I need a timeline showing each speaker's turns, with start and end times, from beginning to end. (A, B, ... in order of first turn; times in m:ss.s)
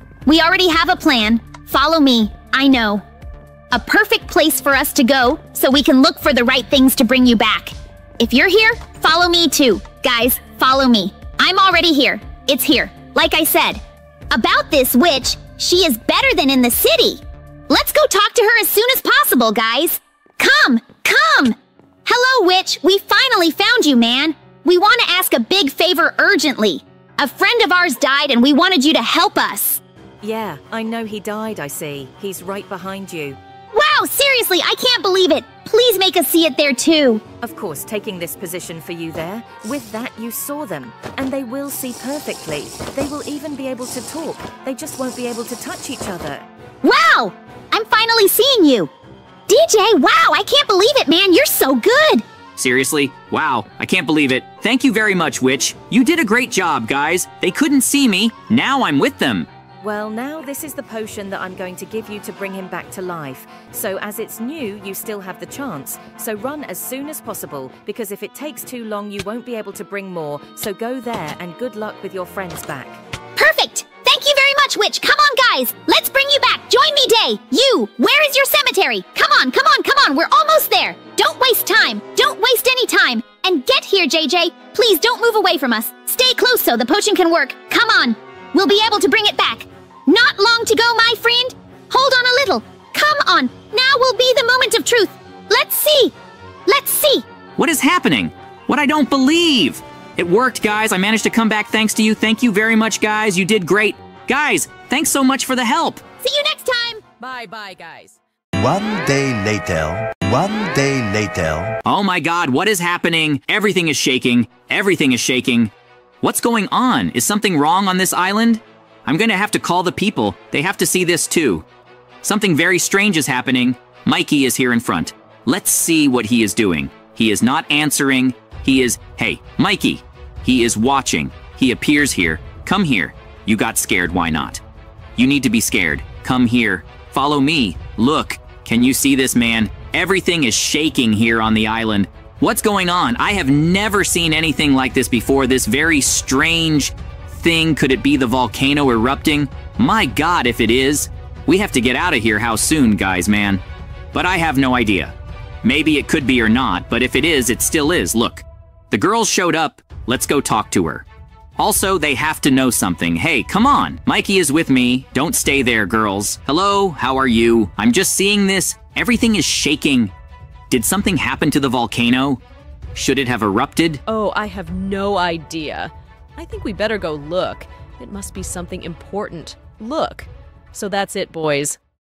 0:00.2-0:03.0 A
0:03.7-0:29.8 A
0:30.2-0:33.4 B
0:33.7-0:37.2 A
0:37.4-0:46.4 B
0:46.8-0:48.9 A
0:49.5-0:52.2 A
0:52.6-0:59.5 C
0:59.8-1:13.0 B
1:13.4-1:36.1 A
1:36.6-1:37.2 A
1:37.6-1:46.0 C
1:46.2-1:47.0 A
1:47.2-1:48.2 D
1:48.6-1:51.8 E
1:51.8-2:01.6 C
2:02.2-2:14.6 C
2:15.2-2:41.0 C
2:41.6-2:50.1 C
2:50.7-2:52.4 C
2:52.9-2:54.0 C
2:54.0-3:01.8 D